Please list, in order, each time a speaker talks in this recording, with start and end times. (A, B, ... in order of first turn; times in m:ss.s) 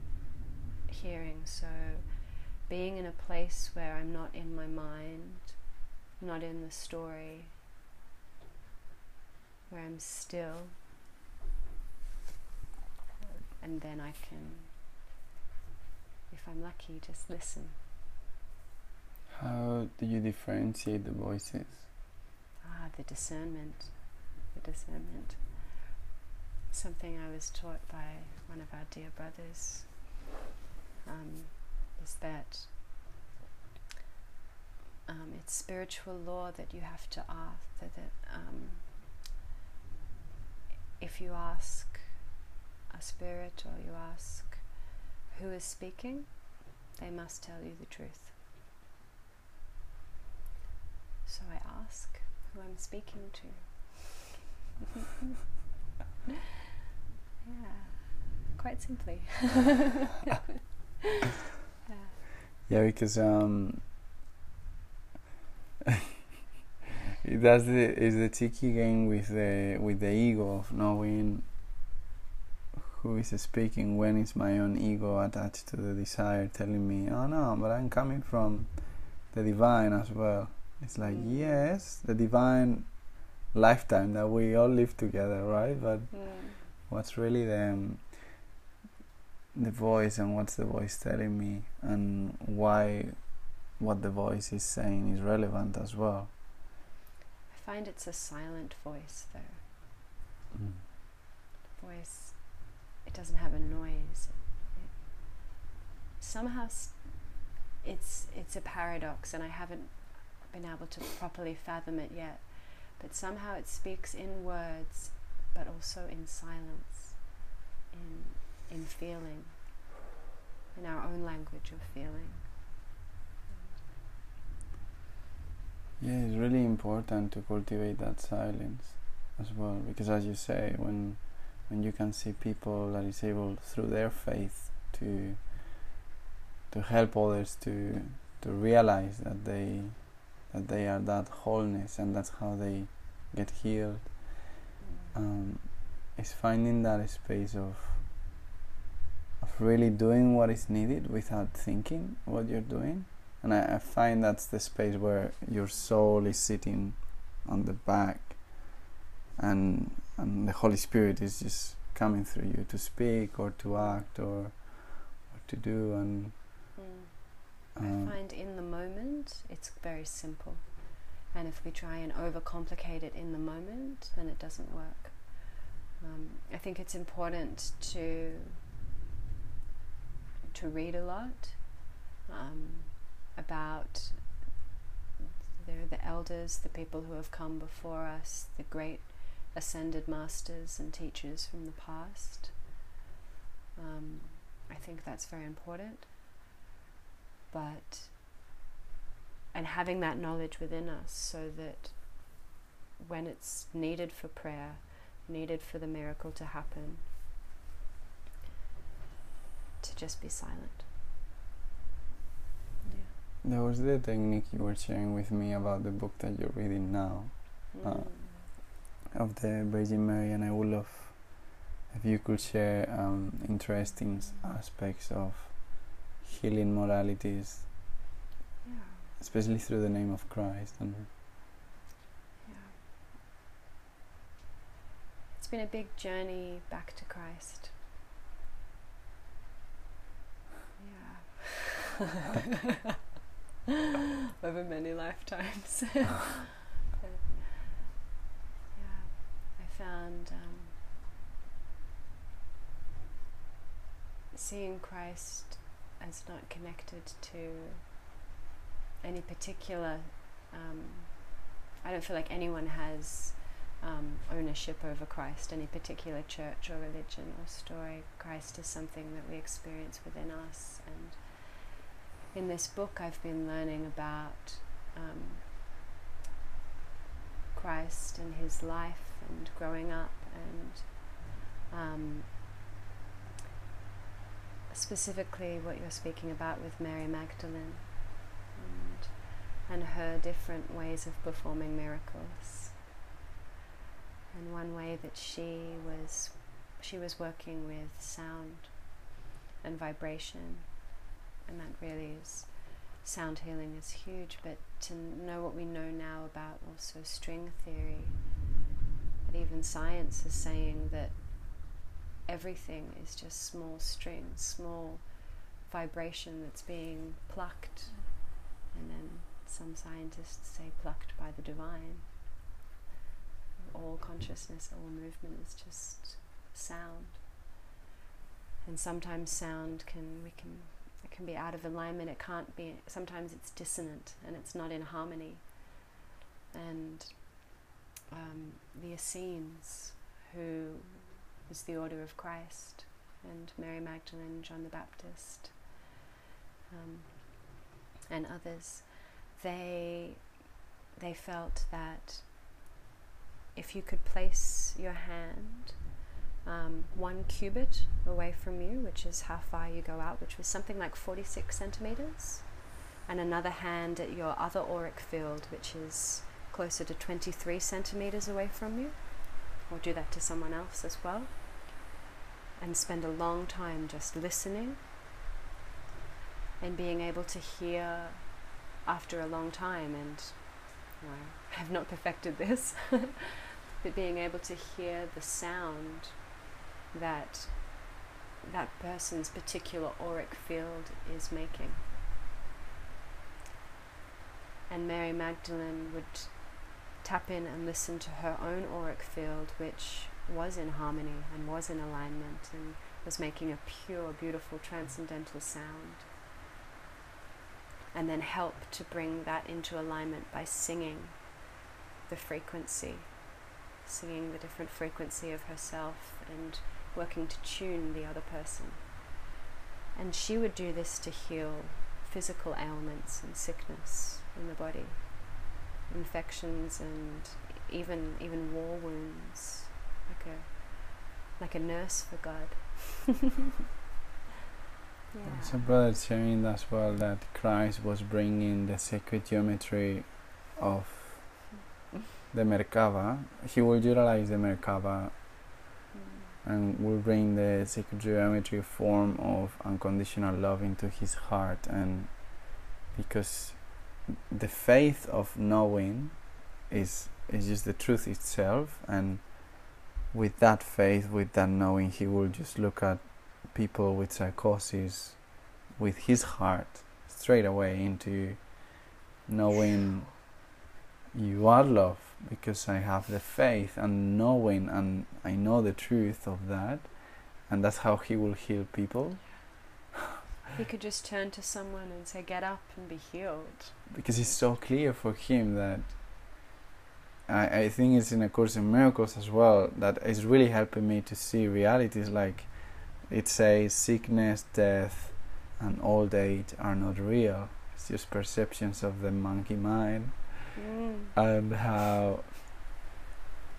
0:00.9-0:07.5 A
0:09.7-0:10.7 A
0:13.6-0:14.7 A
0:16.3-0:17.8 A
0:19.3-0:21.9 B
0:22.6-0:25.9 A
0:26.7-0:30.2 A
0:31.0-0:32.7 A
0:35.0-0:39.0 A
0:41.0-0:42.3 A
0:42.9-0:48.3 A
0:51.2-0:54.4 A
0:57.4-1:02.2 A
1:02.7-1:03.8 B
1:07.2-1:11.5 B
1:12.7-1:28.3 B
1:21.0-1:21.6 A
1:26.2-1:26.5 A
1:29.5-1:36.3 B
1:37.5-1:39.6 A
1:40.5-1:40.8 B
1:41.7-1:45.6 A
1:46.2-1:57.3 A
1:57.9-1:59.6 A
2:00.7-2:02.6 A
2:06.0-2:15.8 B
2:16.7-2:28.1 B
2:29.4-2:38.8 B
2:39.4-2:46.4 B
2:43.8-2:44.0 A
2:46.8-2:58.6 A
2:47.7-2:48.1 B
3:00.5-3:04.4 A
3:05.5-3:12.7 A
3:13.8-3:16.1 A
3:17.5-3:18.2 A
3:19.5-3:27.0 A
3:29.8-3:30.8 A
3:32.8-3:33.1 A
3:33.4-3:47.7 B
3:37.7-3:38.5 A
3:48.6-3:49.1 A
3:49.2-3:51.1 B
3:52.4-3:52.8 A
3:55.4-3:57.7 A
4:00.8-4:02.4 A
4:04.4-4:07.9 A
4:08.7-4:10.8 A
4:14.3-4:17.8 A
4:19.0-4:35.6 A
4:37.5-4:42.5 A
4:44.7-4:52.8 A
4:54.3-4:59.0 A
4:59.6-5:00.7 A
5:01.4-5:08.3 A
5:09.2-5:22.1 A
5:23.6-5:27.2 A
5:28.6-5:35.8 A
5:36.5-5:37.5 A
5:38.1-5:45.8 A
5:46.7-5:50.3 A
5:51.0-5:52.3 A
5:53.5-6:11.8 A
6:12.6-6:14.8 A
6:16.6-6:26.2 A
6:26.9-6:31.8 A
6:34.7-6:46.0 A
6:47.9-6:51.5 A
6:52.1-6:59.0 A
6:59.9-7:13.2 A
7:15.1-7:15.6 A
7:15.2-7:21.5 B
7:22.3-7:25.5 B
7:25.9-7:26.3 A
7:26.4-7:50.3 B
7:51.1-7:59.4 B
8:00.5-8:04.4 A
8:03.9-8:06.2 B
8:07.3-8:20.6 B
8:20.6-8:21.1 A
8:21.1-8:22.3 B